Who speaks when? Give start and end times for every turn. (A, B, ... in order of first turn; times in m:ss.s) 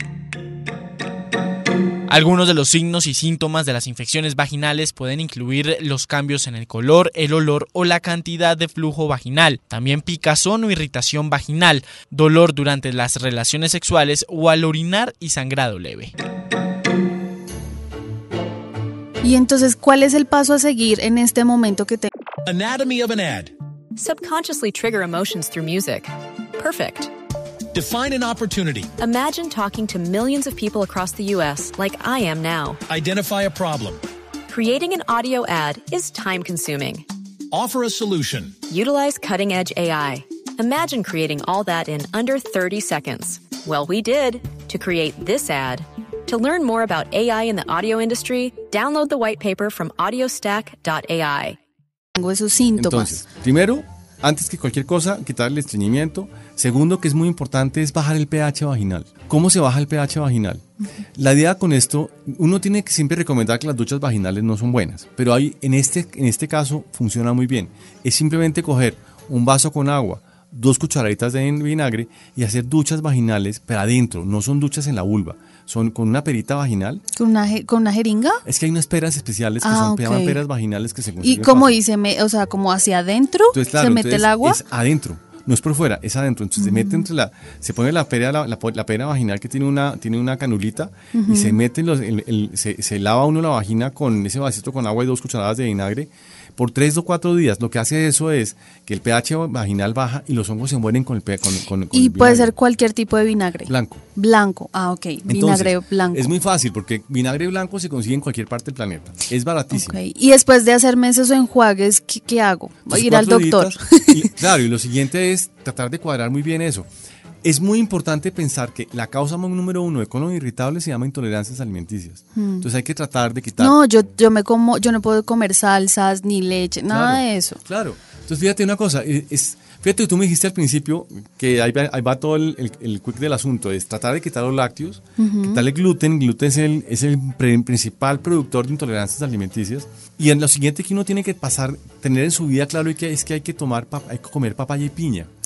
0:02.1-0:16.1 A
0:19.2-0:22.1 B
0:22.4-0:23.5 C
0:24.0-0:27.1 D
0:27.7-0:28.9 C
0:29.0-0:32.8 D
0:32.9-0:34.0 C
0:34.5-0:37.1 D
0:37.5-0:38.6 C
0:38.7-0:51.6 D
0:52.2-0:53.2 B
0:52.8-1:00.6 E
1:01.2-1:17.0 E
1:17.2-1:18.4 B
1:18.4-1:21.8 E
1:19.6-1:20.4 B
1:21.2-1:24.6 B
1:23.5-1:42.5 E
1:26.6-1:27.0 B
1:31.1-1:31.6 B
1:41.9-1:46.3 B
1:43.7-1:44.0 E
1:45.3-1:50.0 E
1:49.7-1:54.4 B
1:52.9-1:56.9 E
1:57.4-2:03.8 E
2:02.4-2:02.7 B
2:03.6-2:07.6 B
2:06.9-2:25.3 E
2:15.2-2:15.6 B